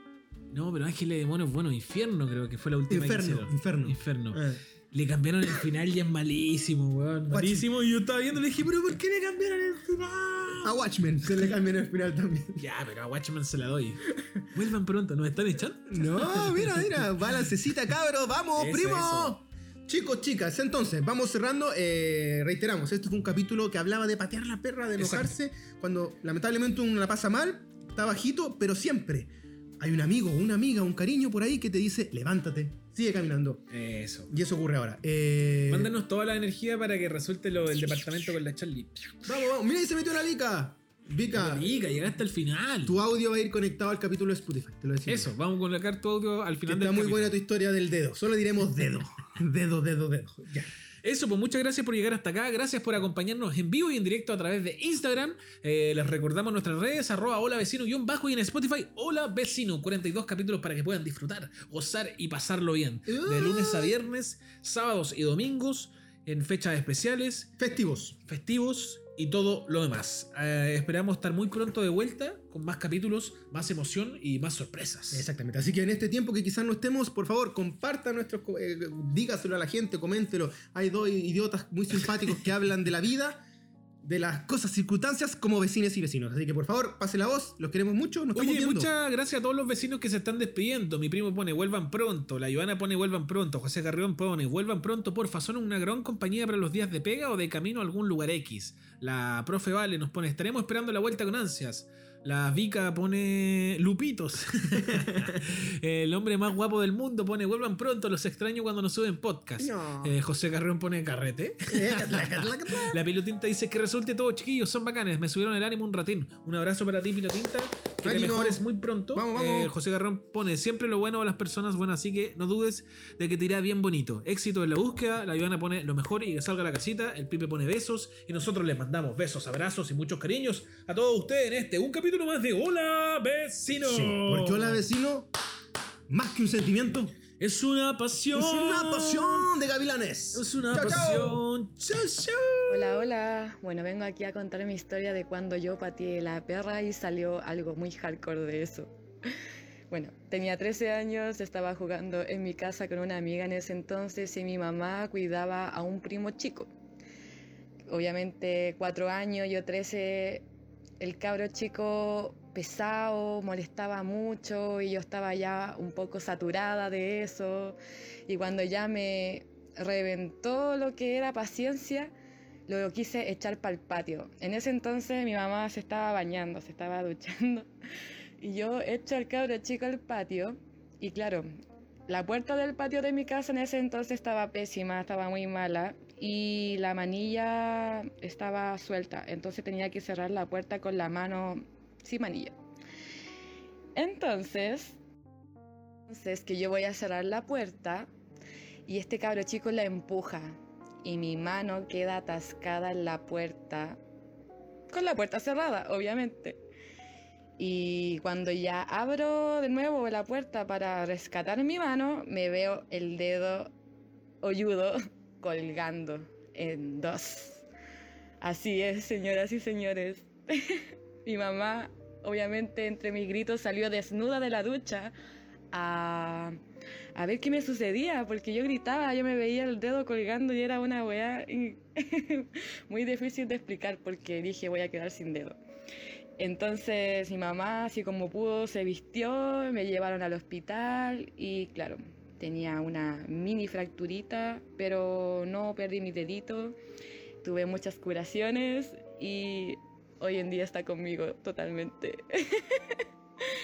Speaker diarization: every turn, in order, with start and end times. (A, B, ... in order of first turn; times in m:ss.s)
0:00.5-0:10.7 A
0:02.9-0:04.6 B
0:07.3-0:07.7 B
0:09.1-0:09.9 B
0:10.5-0:12.6 B
0:12.6-0:17.4 A
0:14.2-0:14.4 B
0:15.9-0:33.6 B
0:18.6-0:19.4 A
0:25.0-0:25.3 A
0:33.7-0:34.3 A
0:34.3-0:35.9 B
0:35.7-0:39.2 A
0:39.2-0:41.8 B
0:41.3-0:43.0 A
0:42.8-0:45.3 B
0:45.1-0:47.4 A
0:46.7-0:50.7 B
0:51.0-1:07.5 A
1:03.1-1:04.0 B
1:07.6-1:08.2 B
1:08.2-1:15.3 A
1:15.1-1:23.4 B
1:24.0-1:28.9 B
1:28.3-2:14.8 A
1:44.8-1:45.4 B
1:49.6-1:50.2 B
1:51.7-1:53.0 B
1:58.0-1:59.7 B
2:13.8-2:15.3 B
2:16.1-2:17.2 B
2:17.4-2:19.5 A
2:18.3-2:21.4 B
2:20.3-2:23.0 A
2:22.7-2:28.9 C
2:29.9-2:36.7 C
2:37.9-2:40.4 C
2:41.0-2:47.8 C
2:48.3-2:52.1 C
2:52.7-2:57.7 C
2:58.4-3:01.5 C
3:02.1-3:12.6 C
3:14.0-3:15.0 C
3:16.1-3:18.1 C
3:18.8-3:24.0 C
3:24.9-3:26.6 C
3:27.6-3:33.7 C
3:34.4-3:37.6 C
3:38.4-3:45.1 C
3:45.7-3:46.6 C
3:47.2-3:55.6 C
3:56.4-4:06.8 C
4:07.4-4:13.0 C